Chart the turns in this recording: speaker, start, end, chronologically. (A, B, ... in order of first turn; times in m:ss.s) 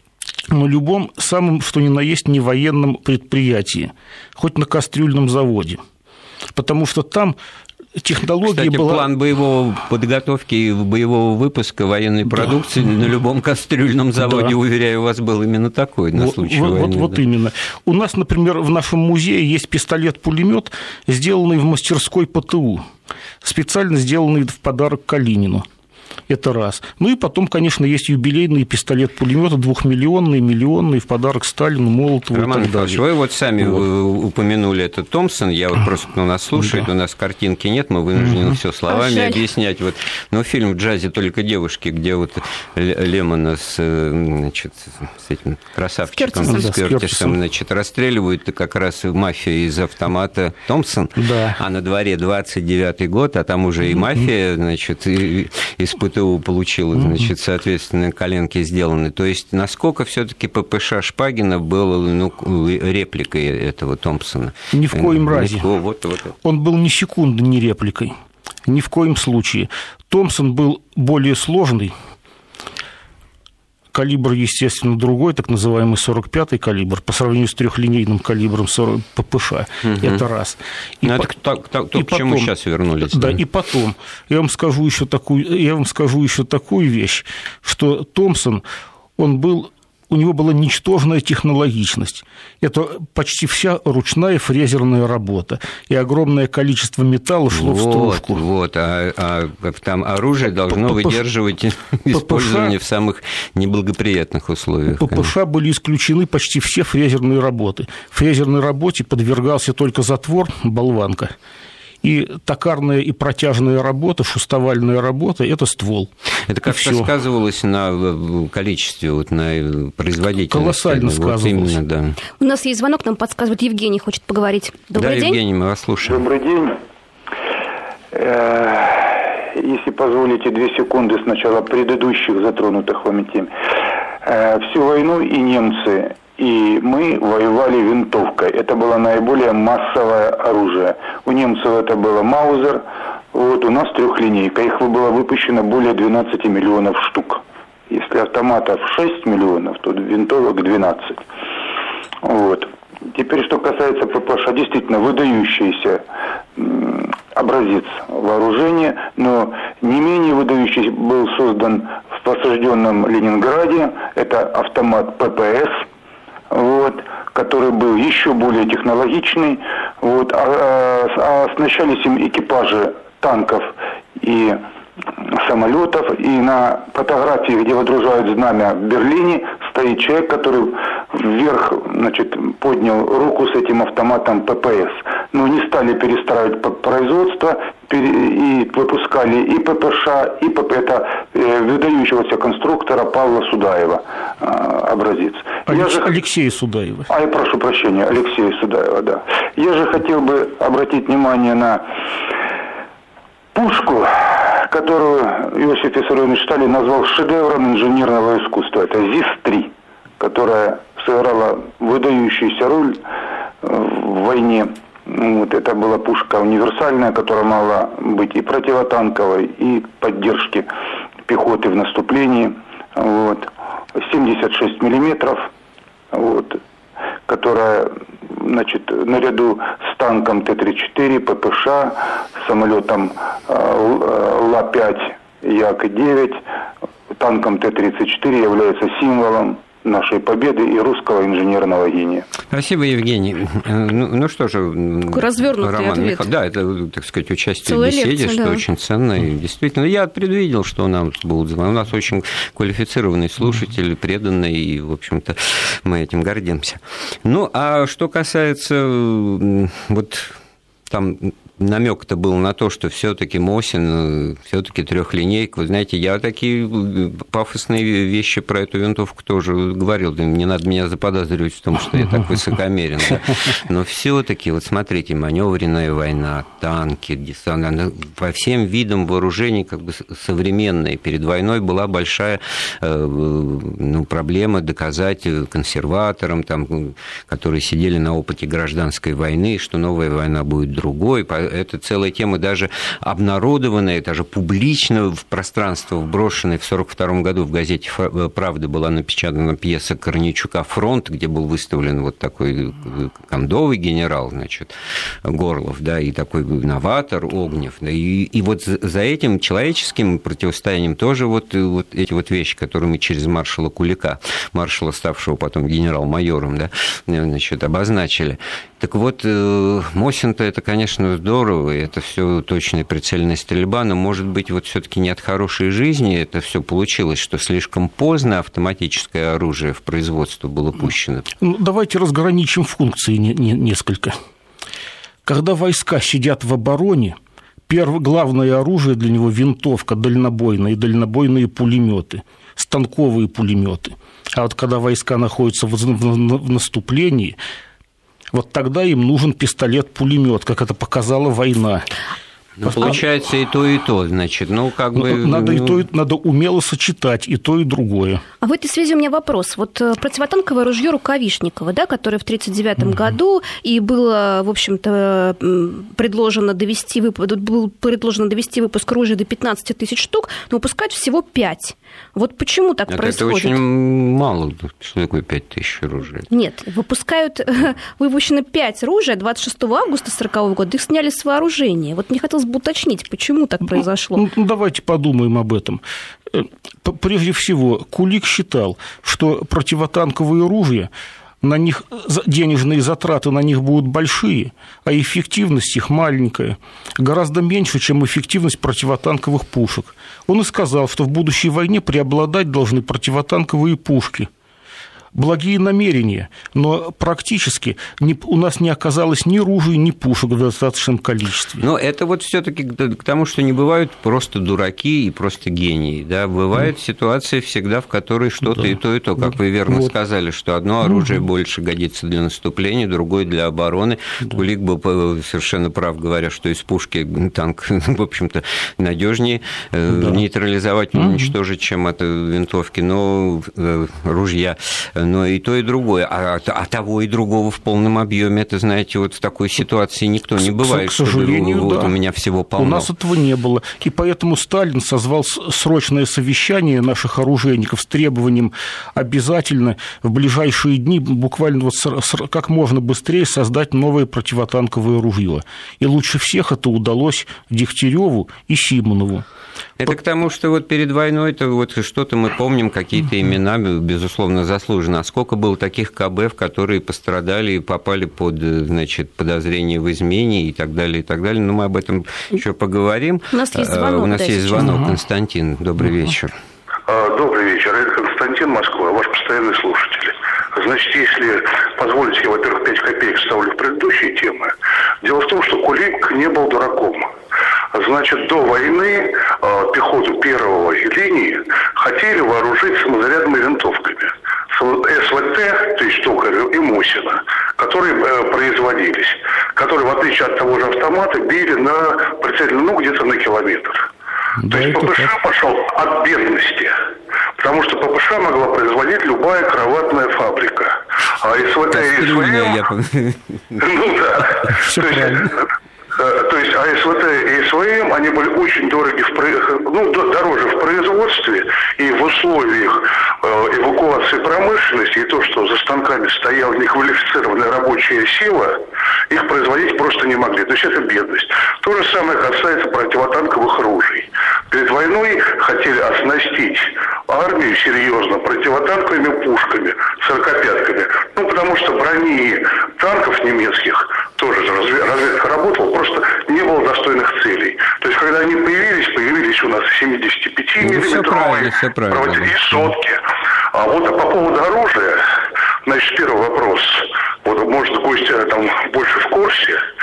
0:00.5-0:05.8 A
0:06.5-0:07.4 A
0:08.0-0:09.1 A
0:08.4-0:17.2 B
0:14.2-0:14.5 A
0:16.1-0:22.8 A
0:23.4-0:25.7 A
0:26.3-0:33.0 A
0:32.3-1:06.4 B
0:38.9-0:39.4 C
0:46.1-0:46.7 C
0:46.4-0:47.4 A
0:51.2-0:51.6 A
1:04.7-1:05.6 A
1:06.4-1:08.1 A
1:08.7-1:11.9 A
1:13.9-1:21.3 A
1:19.8-1:20.2 B
1:21.0-1:23.4 B
1:21.9-1:22.5 A
1:23.1-1:28.6 A
1:29.2-1:38.4 A
1:37.5-1:45.3 B
1:40.7-1:41.2 A
1:42.1-1:42.7 A
1:45.0-1:51.3 A
1:52.0-1:56.1 A
1:56.5-2:02.2 B
1:56.7-1:57.1 A
2:00.5-2:01.8 A
2:02.4-2:05.4 C
2:04.9-2:06.2 B
2:06.0-2:06.8 D
2:08.1-2:13.5 D
2:14.2-2:31.2 D
2:32.2-2:36.0 D
2:36.6-2:45.9 D
2:46.5-2:54.6 D
2:55.2-3:16.1 D
3:15.7-3:17.1 A
3:17.1-3:21.9 D
3:23.5-3:33.0 D
3:33.6-3:40.7 D
3:41.3-3:45.5 D
3:46.1-3:46.6 D
3:47.3-3:56.4 D
3:57.1-4:02.2 D
4:02.5-4:20.3 B
4:05.1-4:06.3 C
4:07.6-4:08.6 C
4:20.9-5:04.7 B
5:05.2-5:31.3 B
5:31.4-5:34.2 A
5:35.2-5:37.2 A
5:37.7-5:47.4 A
5:48.3-5:51.9 A
5:52.6-5:55.8 B
5:52.6-5:53.0 A
5:55.0-5:58.2 A
5:58.4-6:13.6 C
6:12.9-6:16.2 B
6:16.3-6:24.3 C
6:24.2-6:30.9 A
6:31.4-6:44.3 A
6:45.1-6:51.6 A
6:51.6-7:22.9 B
7:00.9-7:01.2 A
7:09.9-7:10.2 A
7:11.0-7:11.3 A
7:20.4-7:21.9 A
7:22.6-7:39.2 A
7:39.8-7:56.3 B
7:53.3-7:54.9 C
7:56.9-8:07.1 E
8:07.7-8:23.8 E
8:24.4-8:25.1 A
8:24.5-8:26.7 E
8:27.4-8:32.6 E
8:31.7-8:33.6 B
8:33.6-8:35.4 E
8:34.6-8:35.4 A
8:36.0-9:13.0 E
9:10.6-9:12.7 B
9:13.5-9:15.0 E
9:15.6-9:19.6 E